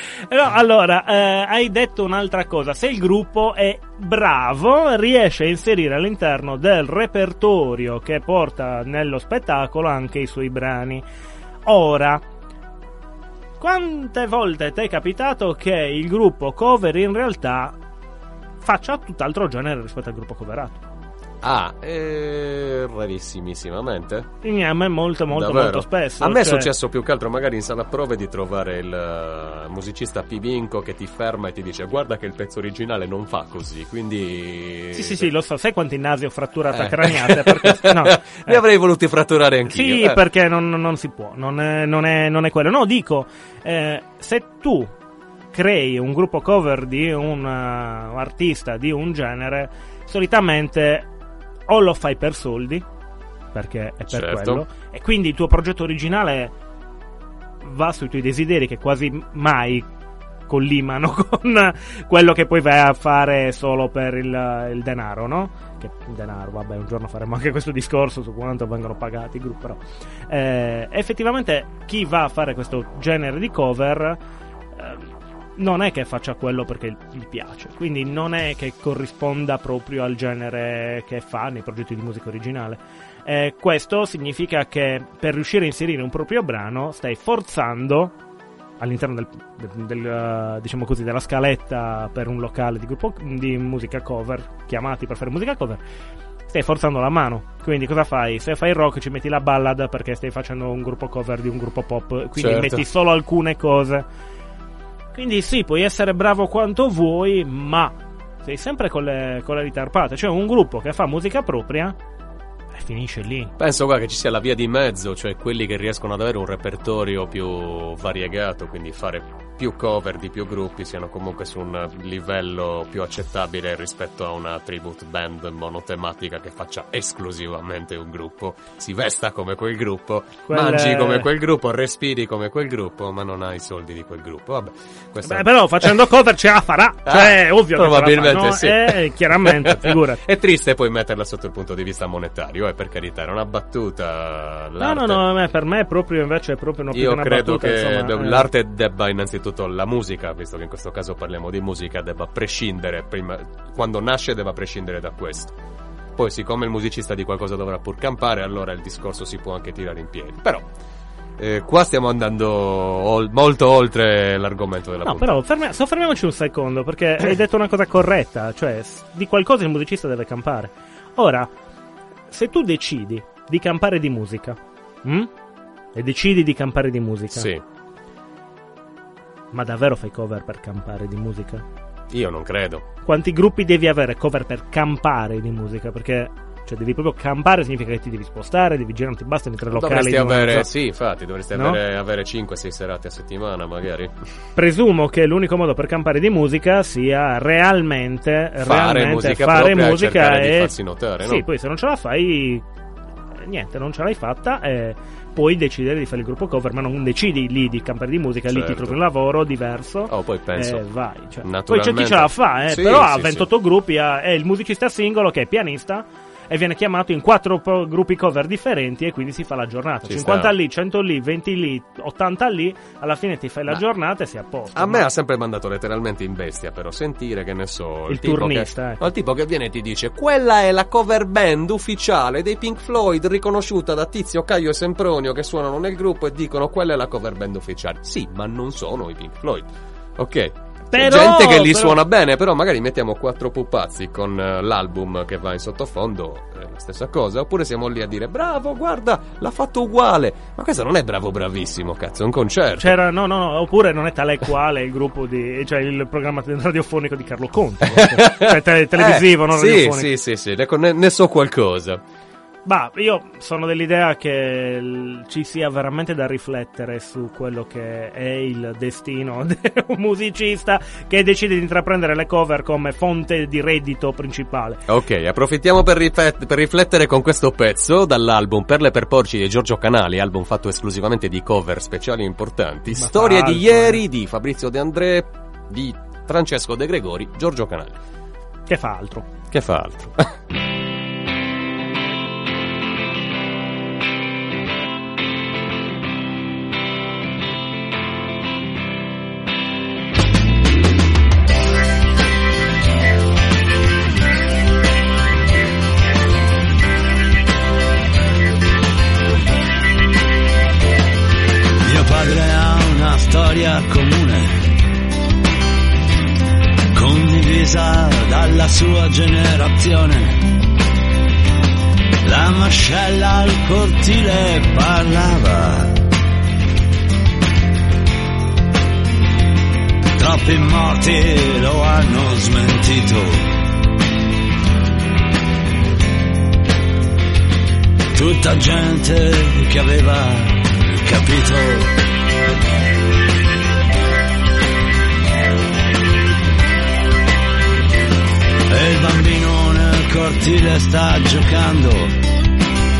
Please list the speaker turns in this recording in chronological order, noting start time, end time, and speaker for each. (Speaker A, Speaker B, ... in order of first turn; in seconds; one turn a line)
Speaker A: 0.3-11.0
Speaker A: 11.7-12.2
Speaker A: 13.6-17.8
Speaker A: 18.6-20.8
Speaker B: 21.4-24.3
Speaker A: 24.4-26.7
Speaker B: 25.3-35.3
Speaker A: 34.9-38.6
Speaker B: 36.7-40.2
Speaker A: 39.7-44.9
Speaker A: 45.5-51.1
Speaker A: 51.7-52.8
Speaker A: 53.5-56.5
Speaker B: 54.1-54.6
Speaker A: 57.6-59.9
Speaker A: 60.5-74.2
Speaker A: 74.7-88.1
Speaker A: 88.8-95.8
Speaker A: 96.5-104.0
Speaker B: 102.3-102.8
Speaker A: 105.1-112.0
Speaker A: 112.7-113.5
Speaker B: 113.6-135.9
Speaker A: 130.5-131.3
Speaker A: 135.2-140.2
Speaker B: 137.1-145.2
Speaker A: 144.8-148.5
Speaker B: 146.9-155.6
Speaker B: 156.2-160.7
Speaker B: 161.4-165.3
Speaker A: 165.0-171.5
Speaker A: 172.3-175.3
Speaker A: 175.9-177.5
Speaker B: 177.3-177.6
Speaker A: 179.5-181.6
Speaker B: 182.1-182.8
Speaker A: 183.0-190.7
Speaker B: 189.7-194.1
Speaker A: 191.5-191.8
Speaker A: 194.6-202.6
Speaker B: 198.6-201.4
Speaker A: 203.4-225.1
Speaker B: 208.5-209.0
Speaker B: 210.1-210.8
Speaker B: 211.4-213.5
Speaker B: 220.1-220.5
Speaker B: 224.7-253.0
Speaker A: 228.1-229.1
Speaker A: 240.9-242.0
Speaker A: 252.8-260.1
Speaker B: 257.8-262.0
Speaker A: 262.6-274.8
Speaker B: 274.9-288.0
Speaker A: 282.9-284.0
Speaker A: 288.7-289.3
Speaker B: 289.5-290.3
Speaker C: 311.8-314.6
Speaker C: 316.9-320.5
Speaker C: 322.2-326.0
Speaker C: 330.1-333.5
Speaker C: 338.1-341.9
Speaker C: 348.7-352.1